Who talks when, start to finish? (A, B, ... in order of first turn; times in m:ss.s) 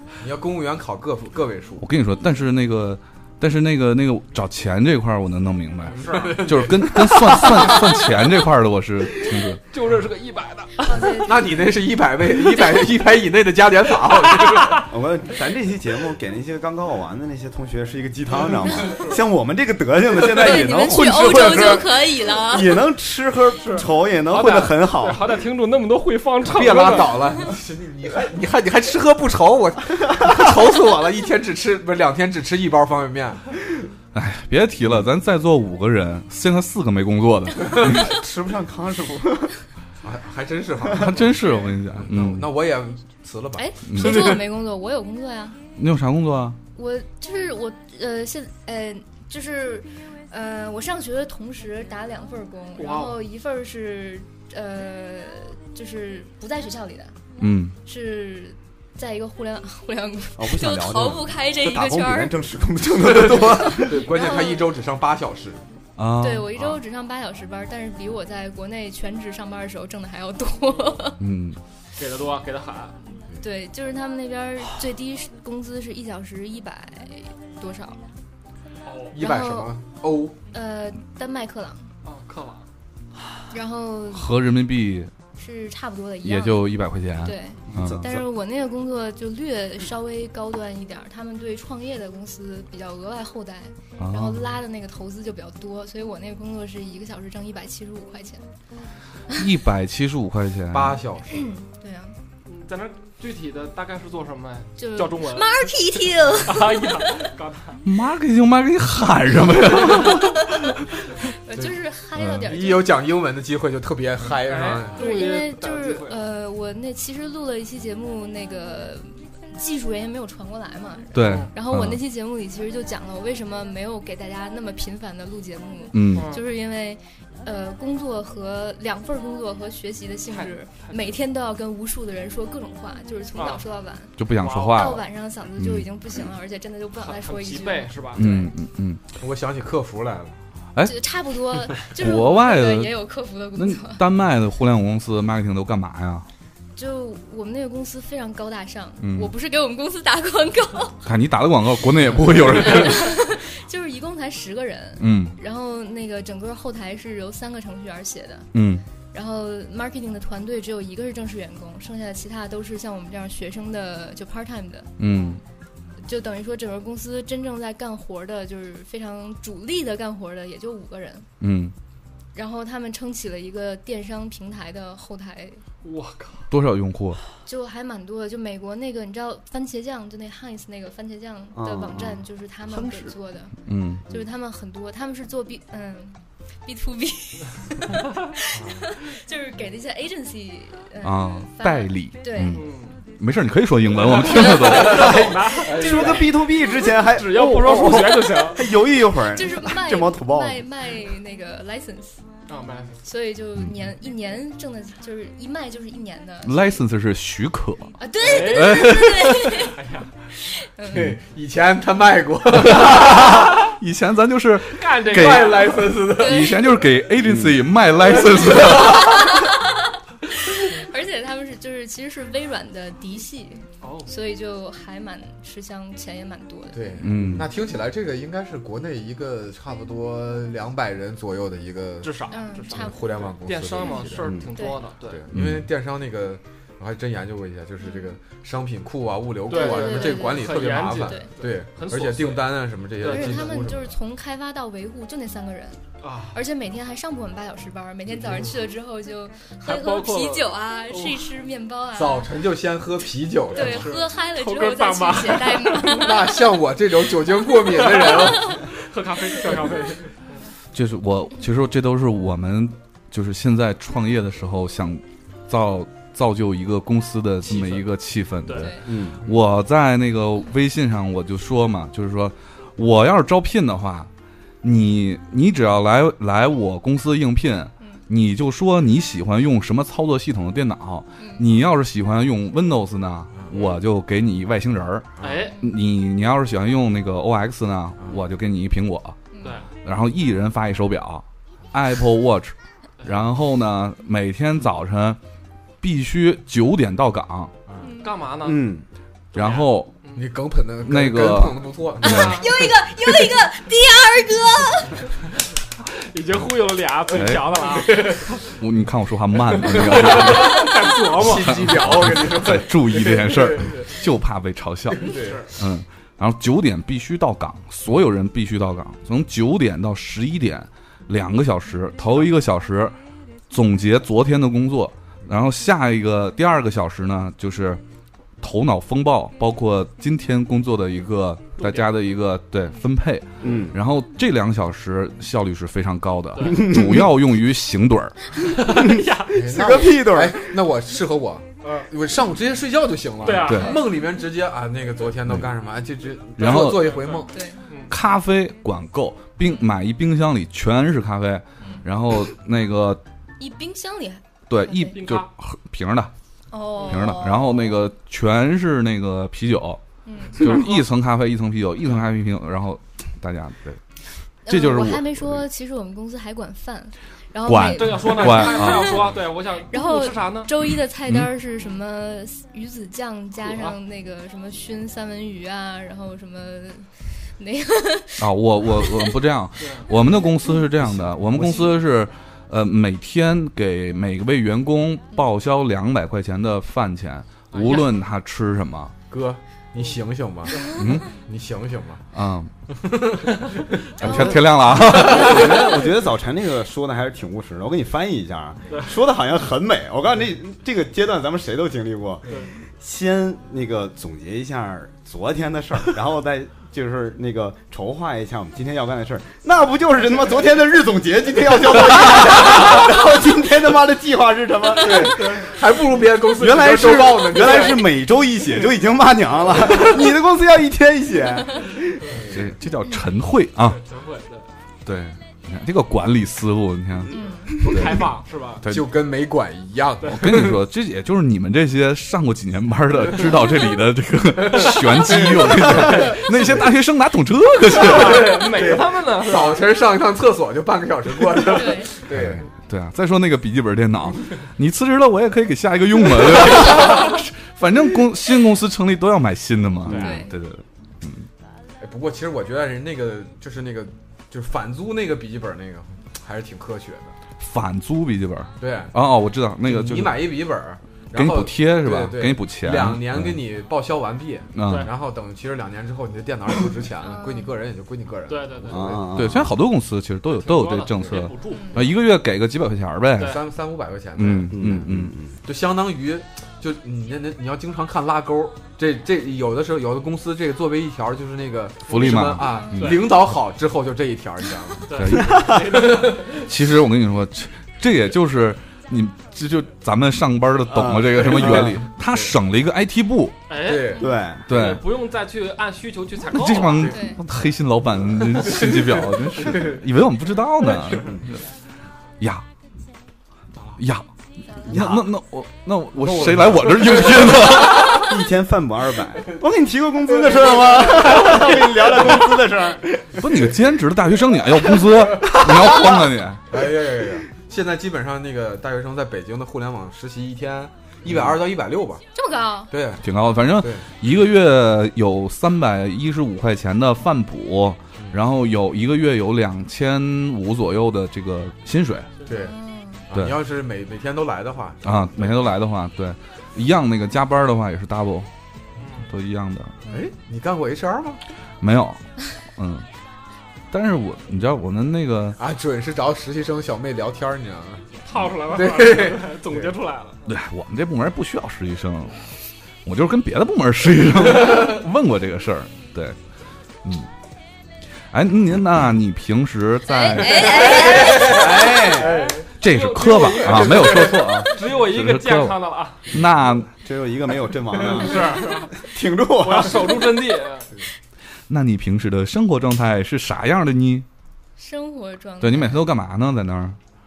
0:00.2-0:01.8 A
0:01.8-0:09.6 B
0:05.9-0:06.4 C
0:05.9-0:06.9 A
0:09.7-0:11.3 C
0:10.8-0:11.6 D
0:11.2-0:14.9 A
0:14.1-0:14.8 C
0:14.8-0:25.3 E
0:20.2-0:22.8 D
0:23.6-0:27.4 C
0:26.4-0:33.6 A
0:34.1-0:38.1 B
0:37.7-0:39.6 E
0:40.0-0:44.4 A
0:41.0-0:42.5 B
0:43.6-0:45.6 D
0:43.9-0:44.4 B
0:45.8-0:46.6 B
0:46.7-0:57.2 D
0:52.8-0:53.2 C
0:57.4-0:57.8 B
0:57.8-1:02.3 D
1:00.4-1:04.1 E
1:03.0-1:05.6 A
1:04.0-1:04.7 D
1:06.0-1:06.8 B
1:06.2-1:11.2 D
1:11.2-1:11.6 B
1:12.0-1:13.0 C
1:13.4-1:18.0 D
1:18.8-1:19.1 C
1:19.1-1:20.4 A
1:19.2-1:19.8 D
1:20.5-1:21.9 D
1:22.0-1:22.7 C
1:23.5-1:24.3 D
1:24.1-1:25.1 B
1:25.4-1:38.5 D
1:26.2-1:28.0 B
1:27.7-1:28.2 E
1:34.0-1:34.6 B
1:39.3-1:41.0 B
1:40.7-1:41.5 A
1:41.3-1:42.2 D
1:42.4-1:45.7 C
1:44.8-1:47.2 D
1:46.4-1:47.8 C
1:47.8-1:51.2 B
1:51.3-1:52.9 D
1:52.2-1:52.5 B
1:52.4-1:55.0 A
1:54.3-1:56.2 C
1:55.0-2:18.5 D
2:01.1-2:02.0 B
2:01.2-2:01.5 C
2:05.9-2:06.3 B
2:06.2-2:06.4 C
2:10.3-2:11.1 C
2:13.3-2:13.6 C
2:14.2-2:15.0 B
2:14.3-2:15.0 C
2:15.6-2:15.8 B
2:17.0-2:18.3 C
2:18.2-2:19.0 B
2:19.2-2:20.4 A
2:20.8-2:24.0 D
2:21.9-2:23.0 B
2:23.6-2:26.3 B
2:26.8-2:31.0 D
2:29.0-2:29.3 B
2:31.0-2:33.3 B
2:32.6-2:38.5 D
2:35.0-2:35.4 B
2:38.5-2:38.8 B
2:39.1-2:44.9 D
2:45.0-2:45.4 B
2:46.0-2:51.3 D
2:51.4-2:51.7 B
2:52.3-2:55.6 D
2:55.8-2:56.5 C
2:56.5-2:57.2 B
2:57.4-3:03.5 D
3:01.5-3:02.2 E
3:03.6-3:04.1 B
3:04.1-3:12.6 D
3:08.5-3:08.8 A
3:11.0-3:15.3 B
3:12.5-3:13.0 C
3:14.2-3:16.4 C
3:14.7-3:15.2 D
3:14.8-3:16.3 A
3:15.0-3:20.6 E
3:15.8-3:16.2 D
3:16.9-3:18.6 C
3:19.3-3:22.2 D
3:22.5-3:23.0 C
3:23.0-3:26.8 D
3:26.4-3:28.0 B
3:28.0-3:29.7 D
3:28.2-3:30.1 C
3:28.5-3:29.6 B
3:30.4-3:31.1 D
3:30.9-3:33.5 A
3:32.8-3:39.4 B
3:34.7-3:35.8 C
3:35.0-3:36.6 A
3:36.1-3:36.8 D
3:37.2-3:37.6 E
3:38.5-3:39.0 A
3:38.8-3:47.0 D
3:43.8-3:44.1 C
3:46.7-3:54.3 A
3:47.0-3:47.4 B
3:47.2-3:47.4 E
3:52.0-3:55.3 C
3:52.3-3:53.0 D
3:54.2-3:54.5 E
3:54.5-3:54.8 D
3:55.0-4:03.9 A
3:55.3-3:55.7 B
3:57.8-3:58.1 D
3:59.5-4:03.5 C
3:59.5-4:01.3 D
4:03.0-4:05.8 D
4:06.0-4:06.4 C
4:06.3-4:12.3 D
4:09.6-4:11.3 C
4:12.0-4:13.9 A
4:13.5-4:16.0 C
4:13.5-4:16.4 D
4:15.8-4:18.6 A
4:17.7-4:20.1 C
4:20.7-4:34.1 B
4:27.4-4:27.9 C
4:28.4-4:28.8 C
4:28.5-4:28.8 D
4:28.9-4:29.2 E
4:34.6-4:49.2 B
4:41.2-4:41.4 D
4:45.2-4:45.5 A
4:45.2-4:45.6 C
4:45.4-4:45.7 D
4:49.3-4:49.6 D
4:49.4-4:49.7 C
4:49.8-4:55.2 B
4:55.8-4:57.5 B
4:57.8-4:58.1 D
4:58.0-4:58.7 C
4:58.4-4:58.8 E
4:59.3-4:59.9 B
4:59.3-5:00.3 C
5:00.1-5:02.3 A
5:00.8-5:02.5 B
5:02.0-5:05.1 D
5:02.0-5:02.4 C
5:06.0-5:08.4 C
5:07.1-5:07.6 B
5:08.4-5:23.0 B
5:09.6-5:12.3 C
5:10.6-5:13.8 A
5:14.9-5:15.5 A
5:15.0-5:15.5 C
5:23.5-5:27.8 B
5:28.4-5:38.1 B
5:31.6-5:31.9 C
5:33.4-5:33.8 E
5:36.3-5:36.8 C
5:36.8-5:37.0 E
5:38.4-5:39.8 C
5:38.7-5:40.6 E
5:39.3-5:47.3 A
5:41.6-5:41.9 C
5:43.2-5:43.8 C
5:43.4-5:43.8 B
5:43.5-5:43.8 D
5:46.4-5:47.0 B
5:46.8-5:47.9 C
5:47.3-5:47.6 D
5:47.9-5:53.0 B
5:51.6-5:51.8 D
5:53.4-5:55.0 D
5:54.5-5:56.1 B
5:54.9-5:55.3 C
5:56.5-5:57.6 D
5:56.8-5:57.0 C
5:56.8-5:59.8 B
6:00.0-6:00.4 D
6:00.3-6:03.8 B
6:04.4-6:09.1 D
6:04.5-6:05.4 B
6:07.4-6:09.2 B
6:07.6-6:10.5 C
6:09.7-6:19.1 D
6:13.4-6:13.8 C
6:18.2-6:28.9 B
6:19.6-6:19.9 C
6:19.9-6:20.6 D
6:20.9-6:21.7 A
6:27.5-6:27.8 C
6:29.1-6:32.0 A
6:30.6-6:31.1 B
6:32.1-6:32.5 B
6:32.8-6:34.0 A
6:34.0-6:35.6 B
6:34.0-6:35.9 D
6:34.0-6:55.5 E
6:35.1-6:35.4 A
6:54.7-6:57.8 A
6:56.3-7:02.2 E
6:57.4-6:57.8 C
7:02.1-7:02.5 A
7:02.3-7:03.8 B
7:03.8-7:04.5 C
7:04.8-7:08.1 B
7:07.1-7:07.6 D
7:07.5-7:08.6 C
7:08.6-7:08.9 B
7:08.7-7:10.6 A
7:10.1-7:18.4 B
7:14.4-7:16.7 A
7:15.9-7:16.2 C
7:17.7-7:19.7 C
7:17.8-7:22.5 A
7:21.5-7:21.9 D
7:22.1-7:31.3 B
7:29.9-7:30.1 A
7:29.9-7:30.3 D
7:31.8-7:37.1 A
7:37.4-7:40.3 B
7:38.6-7:38.9 A
7:39.6-7:49.0 A
7:41.1-7:43.4 B
7:44.5-7:44.9 B
7:44.6-7:44.9 C
7:47.0-7:47.5 D
7:48.3-7:49.0 C
7:48.7-7:49.5 E
7:49.1-7:53.4 B
7:50.3-7:51.9 C
7:51.5-7:51.8 D
7:53.2-7:54.6 A
7:54.2-7:55.1 B
7:54.5-7:55.3 E
7:55.4-8:06.3 A
8:01.9-8:03.2 B
8:02.4-8:02.8 D
8:02.8-8:03.1 C
8:04.9-8:06.2 C
8:04.9-8:13.4 B
8:05.2-8:05.6 E
8:10.7-8:11.8 E
8:11.3-8:12.3 A
8:13.5-8:16.9 C
8:13.6-8:14.1 A
8:14.0-8:14.6 E
8:14.4-8:14.8 B
8:16.3-8:21.4 B
8:16.6-8:17.0 A
8:16.9-8:17.2 D
8:18.6-8:19.8 A
8:22.2-8:22.4 B
8:23.8-8:28.1 B
8:24.7-8:25.1 E
8:26.0-8:27.8 A
8:27.8-8:33.5 E
8:30.2-8:31.4 A
8:33.2-8:36.4 B
8:36.5-8:42.0 A
8:42.1-8:42.7 D
8:42.7-8:43.9 A
8:43.0-8:52.1 B
8:52.2-8:52.6 A
8:52.3-8:53.0 D
8:53.1-8:55.5 A
8:53.1-8:53.4 B
8:54.8-8:58.3 B
8:58.8-8:59.1 C
8:59.0-8:59.8 B
8:59.9-9:01.2 A
9:01.6-9:02.0 B
9:02.5-9:02.8 B
9:03.7-9:05.4 B
9:05.4-9:09.7 A
9:08.0-9:10.2 C
9:10.2-9:12.2 B
9:12.8-9:16.2 B
9:16.8-9:17.1 B
9:18.1-9:20.9 B
9:19.9-9:21.4 D
9:20.6-9:22.4 A
9:20.8-9:26.0 C
9:21.0-9:22.3 E
9:22.6-9:25.6 B
9:23.4-9:24.2 A
9:26.1-9:26.7 B
9:26.6-9:30.1 E
9:27.8-9:30.7 C
9:31.5-9:34.0 B
9:34.6-9:35.9 D
9:35.4-9:36.8 B